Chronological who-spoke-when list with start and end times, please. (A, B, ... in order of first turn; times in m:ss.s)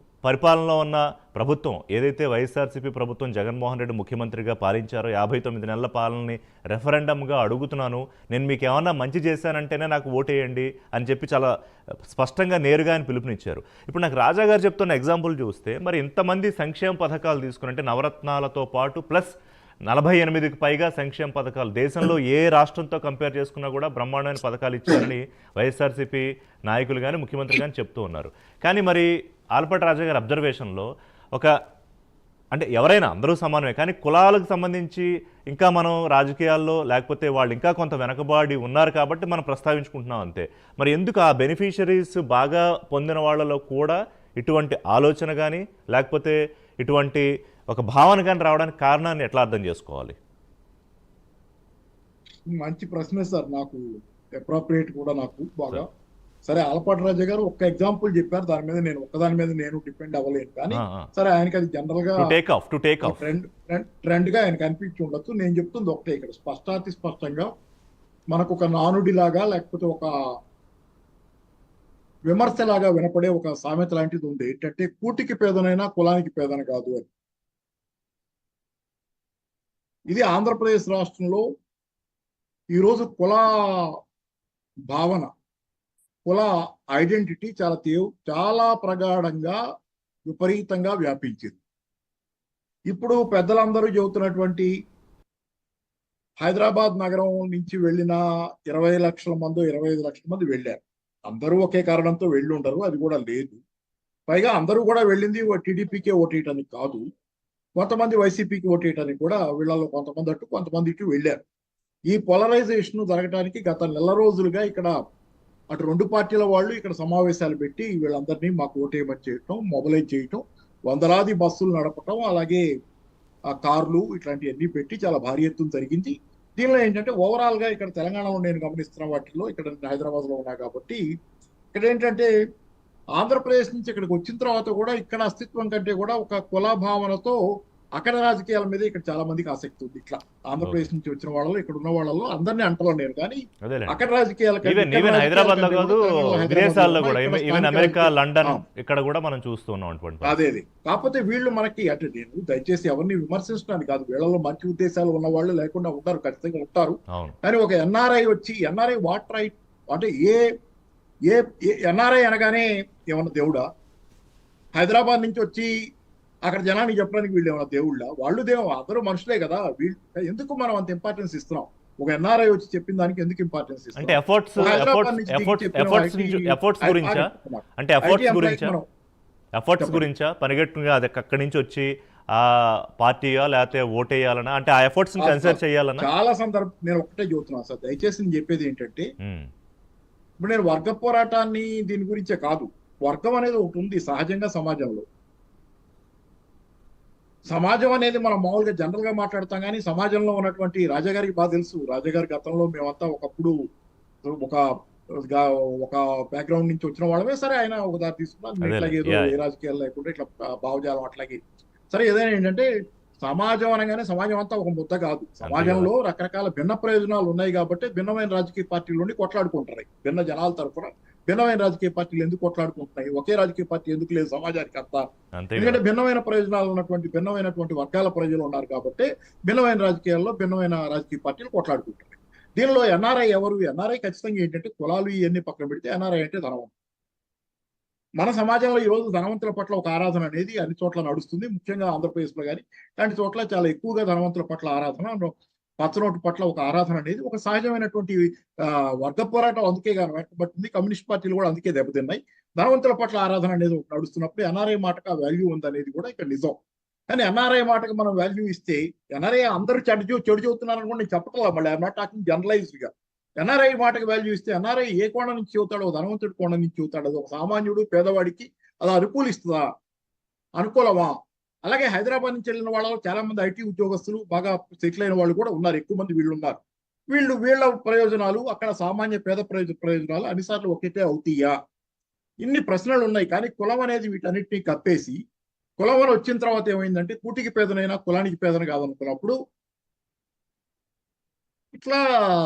0:00.2-0:11.5 A
0:12.1-0:19.3 A
0:19.9-0:31.5 A
0:32.5-0:50.1 A
0:52.5-0:53.8 B
0:54.4-0:55.8 B
0:56.5-1:02.3 B
1:00.7-1:01.1 A
1:02.2-1:03.3 A
1:03.0-1:07.5 B
1:08.3-1:10.1 B
1:12.3-1:17.1 B
1:20.1-1:21.4 B
1:22.7-1:23.5 B
1:24.9-1:25.3 B
1:26.2-1:29.6 B
1:30.3-1:31.6 B
1:32.9-1:34.7 B
1:36.4-1:40.8 B
1:41.3-1:43.6 B
1:44.3-1:47.0 B
1:47.8-1:51.4 B
1:52.1-1:55.0 B
1:55.7-2:02.6 B
2:03.6-2:11.0 B
2:11.7-2:12.3 B
2:13.2-2:17.4 B
2:18.0-2:28.6 B
2:20.6-2:20.9 A
2:23.6-2:24.0 A
2:24.6-2:30.3 A
2:30.2-2:40.4 B
2:41.3-2:43.6 B
2:44.8-2:45.7 B
2:46.4-2:58.9 B
2:54.0-2:57.3 A
2:57.8-2:58.7 A
2:59.6-3:06.1 A
2:59.8-3:00.0 B
3:05.2-3:09.0 B
3:10.4-3:15.0 B
3:17.5-3:23.5 B
3:24.2-3:24.6 B
3:25.2-3:31.4 B
3:28.6-3:29.3 A
3:31.9-3:32.7 B
3:33.2-3:56.7 B
3:35.4-3:35.9 A
3:45.4-3:45.8 A
3:58.2-4:16.6 B
4:17.1-4:29.7 B
4:30.6-4:36.6 B
4:37.1-4:41.6 B
4:42.4-4:45.2 B
4:45.8-4:49.3 B
4:51.7-4:52.0 B